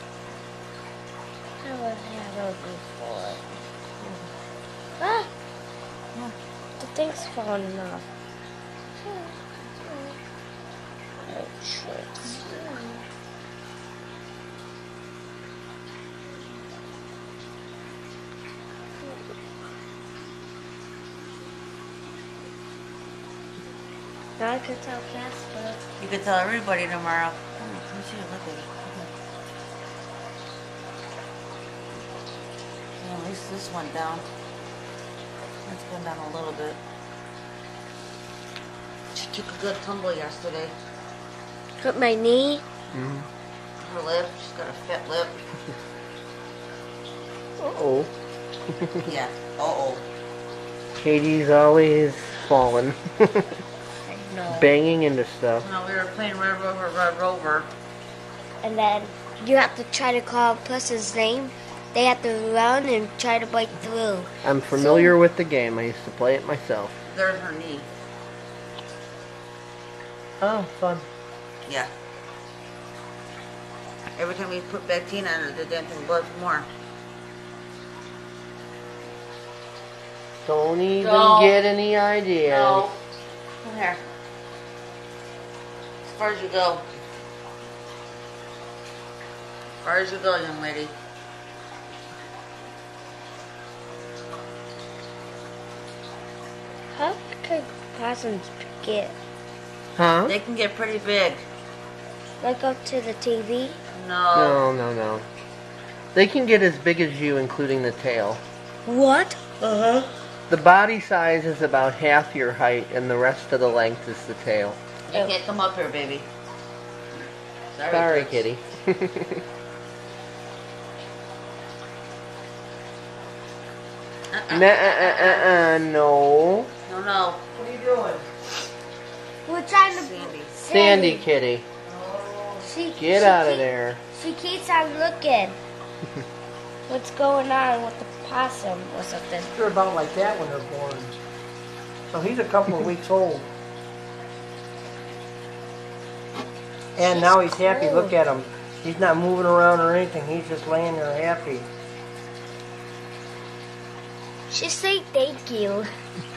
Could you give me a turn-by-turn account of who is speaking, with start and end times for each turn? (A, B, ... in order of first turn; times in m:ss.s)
0:01.6-0:03.4 A
0:05.0-0:05.3 A
0:06.8-0:08.0 A
0:09.0-0:10.2 A
0:11.3-0:13.0 A
0:24.4-0:25.8 A
0:26.0-0:29.1 B
0:33.0-0:34.3 B
0:35.6-0:36.8 B
0:39.1-0:40.7 B
0:41.8-0:42.6 A
0:42.9-0:43.3 C
0:43.8-0:45.4 B
0:47.6-0:48.1 C
0:48.8-0:49.0 C
0:49.0-0:50.0 B
0:51.0-0:53.5 C
0:54.1-0:54.7 A
0:54.5-0:55.7 C
0:55.6-0:57.7 B
0:58.6-1:05.1 A
1:04.4-1:07.0 C
1:07.1-1:07.9 B
1:10.4-1:11.1 C
1:14.2-1:16.7 B
1:20.4-1:22.8 C
1:21.0-1:21.6 B
1:22.4-1:23.0 B
1:23.6-1:24.0 B
1:26.0-1:26.9 B
1:29.8-1:30.9 B
1:36.9-1:39.2 A
1:40.0-1:40.4 C
1:40.3-1:41.5 B
1:42.4-1:43.8 A
1:43.9-1:44.6 B
1:44.3-1:45.3 C
1:46.1-1:48.4 C
1:48.9-1:49.4 A
1:49.6-1:50.1 B
1:50.5-1:54.8 C
1:55.1-1:56.3 B
1:57.7-1:58.4 B
1:57.9-1:59.4 C
2:04.3-2:05.6 B
2:04.5-2:06.7 C
2:06.8-2:07.4 B
2:07.5-2:08.3 D
2:09.5-2:11.3 A
2:09.9-2:10.6 B
2:10.7-2:11.7 C
2:11.9-2:12.7 D
2:12.6-2:15.6 A
2:13.0-2:14.0 C
2:16.9-2:19.5 A
2:19.5-2:21.2 D
2:22.1-2:23.5 D
2:27.0-2:31.7 D
2:27.0-2:28.2 A
2:34.5-2:35.9 A